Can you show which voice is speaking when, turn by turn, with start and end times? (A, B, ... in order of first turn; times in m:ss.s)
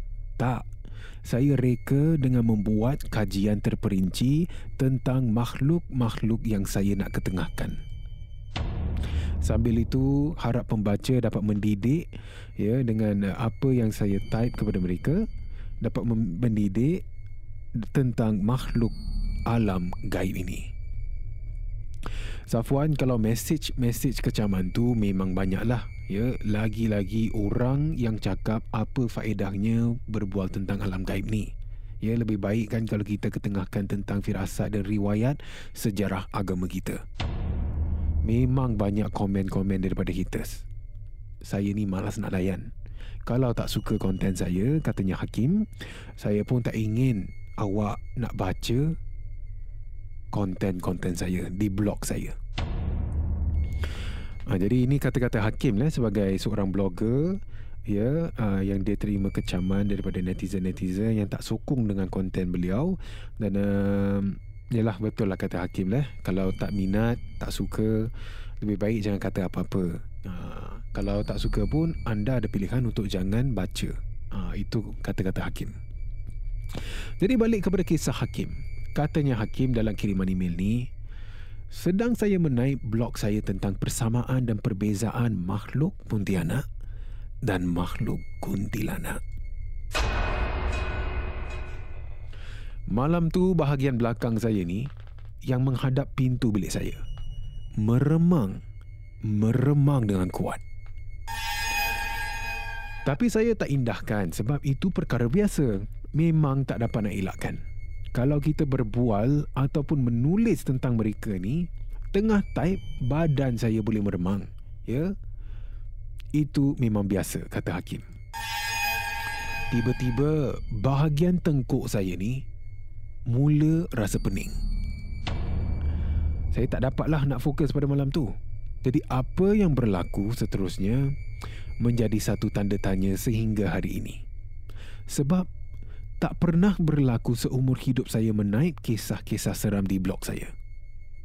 0:00.4-0:00.7 A
0:01.2-0:07.8 A
0:09.4-0:15.2 A
0:15.8-0:17.0 A
0:17.8-0:19.0 A
0:19.5-0:20.7 A
0:22.5-0:31.5 A
0:32.0-0:37.0 A
0:38.2-0:40.6 A
0:41.4-0:42.7 A
0:43.3-0:49.0 A
0:50.3-0:52.4 A
0:54.5-1:15.8 A
1:17.2-1:20.9 A
1:21.7-1:26.6 A
1:27.4-1:29.2 A
1:32.9-1:34.9 A
1:35.5-1:37.0 A
1:37.8-1:38.6 A
1:39.2-1:40.6 A
1:43.0-1:47.6 A
1:48.1-1:55.1 A
1:56.4-1:58.1 A
1:59.7-2:02.4 A
2:03.3-2:04.6 A
2:06.5-2:08.3 A
2:08.8-2:11.1 A
2:11.8-2:14.2 A
2:15.1-2:15.5 A
2:16.2-2:20.5 A